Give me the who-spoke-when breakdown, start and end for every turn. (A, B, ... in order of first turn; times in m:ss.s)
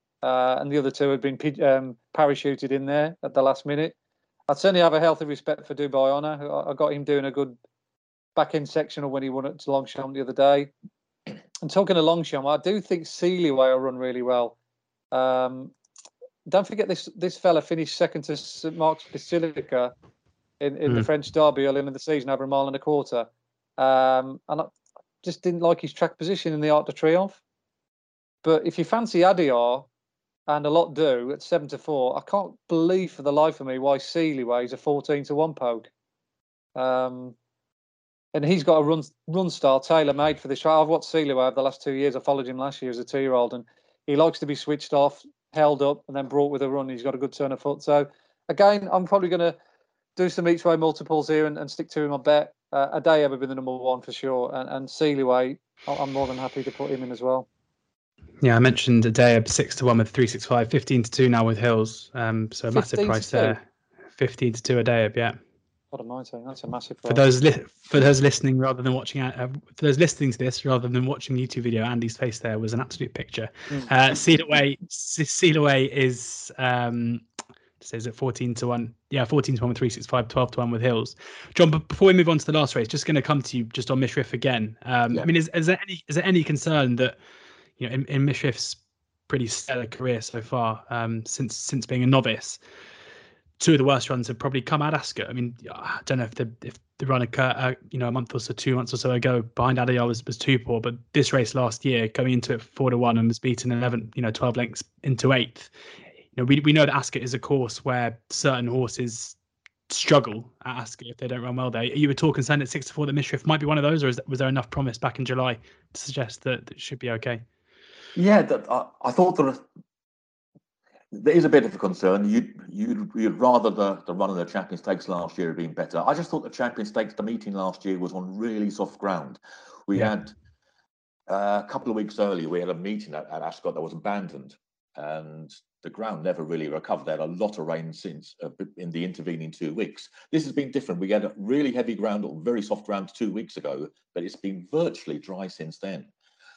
0:00.2-0:03.9 A
0:04.5-0:07.6 A
0:08.4-0:10.7 A
0:11.6-0:14.6 A
0:15.1-0:15.7 A
0:16.5-0:19.9 A
0:20.6-0:24.7 A
0:25.2-0:27.4 A
0:28.4-0:29.9 A
0:30.5-0:35.9 A
0:36.8-0:37.4 A
0:38.3-0:49.6 A
0:50.2-0:57.5 A
0:58.4-1:03.6 B
1:02.7-1:03.6 A
1:04.1-1:05.4 B
1:05.9-1:07.2 A
1:07.0-1:17.2 B
1:17.8-1:27.2 B
1:27.8-1:32.6 B
1:33.6-1:45.7 B
1:46.4-1:49.4 B
1:49.9-1:57.4 B
1:58.1-1:59.6 C
2:01.1-2:10.3 C
2:11.3-2:26.1 C